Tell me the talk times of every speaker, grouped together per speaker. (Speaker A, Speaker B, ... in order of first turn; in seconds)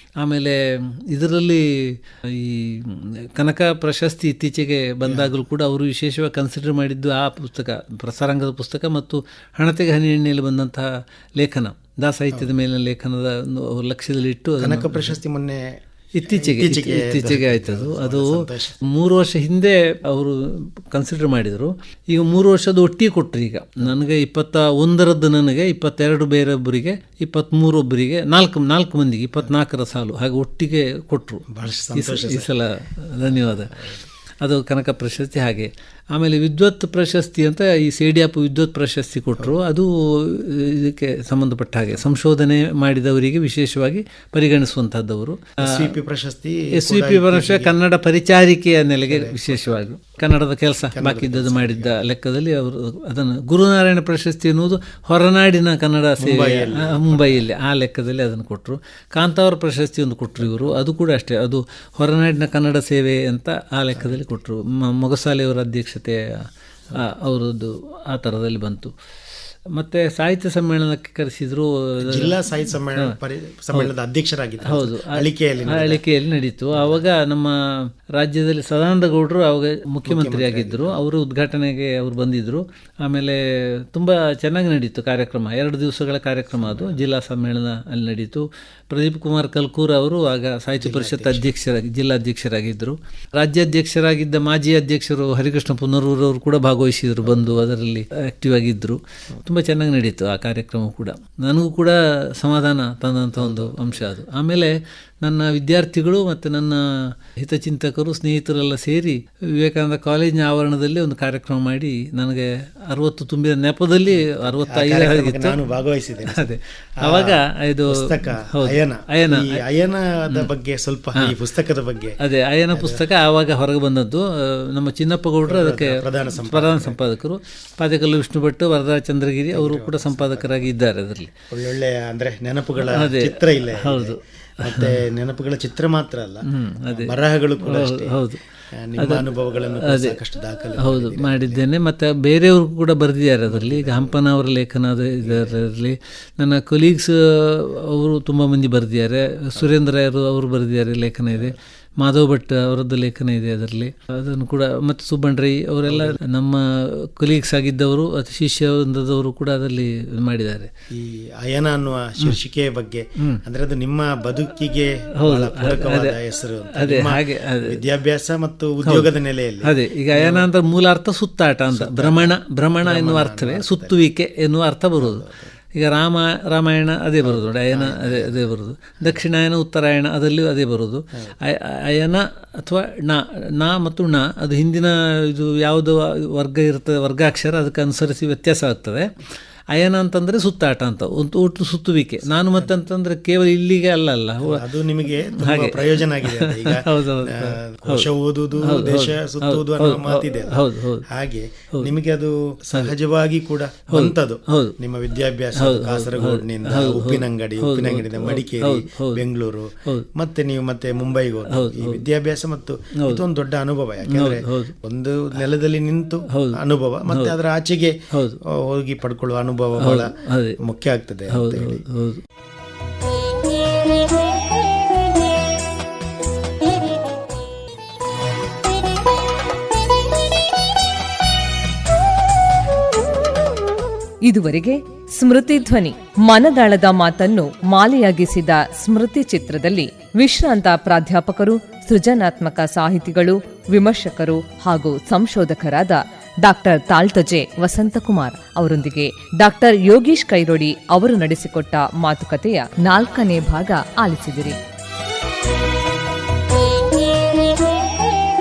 Speaker A: 0.2-15.2, 16.1-33.8, 34.4-45.9, 46.7-68.9, 69.7-72.4, 74.6-115.6, 116.2-119.6, 122.2-131.3, 132.8-135.0, 136.5-138.4, 139.0-160.7, 165.2-166.2, 166.8-167.8, 169.6-194.7, 195.3-198.1, 198.6-201.1, 203.9-204.7, 205.6-209.2, 211.5-212.0, 214.1-214.7, 216.3-216.6, 218.1-218.4, 219.8-220.6, 221.3-222.2
Speaker B: 5.0-5.3, 14.6-18.7, 31.5-32.5, 33.2-34.0, 45.6-47.7, 49.1-49.9, 50.9-52.0, 56.2-57.5, 72.0-76.0, 76.7-77.0, 80.0-81.0, 86.5-87.0, 90.8-91.5, 103.4-104.0, 114.2-122.2, 122.7-123.0, 125.5-127.0, 129.5-130.6, 131.5-138.2, 138.7-141.6, 143.5-144.2, 145.2-145.5, 155.9-156.2, 160.9-170.5, 171.7-174.0, 175.0-175.5, 177.2-178.4, 194.4-221.8
Speaker C: 234.2-254.6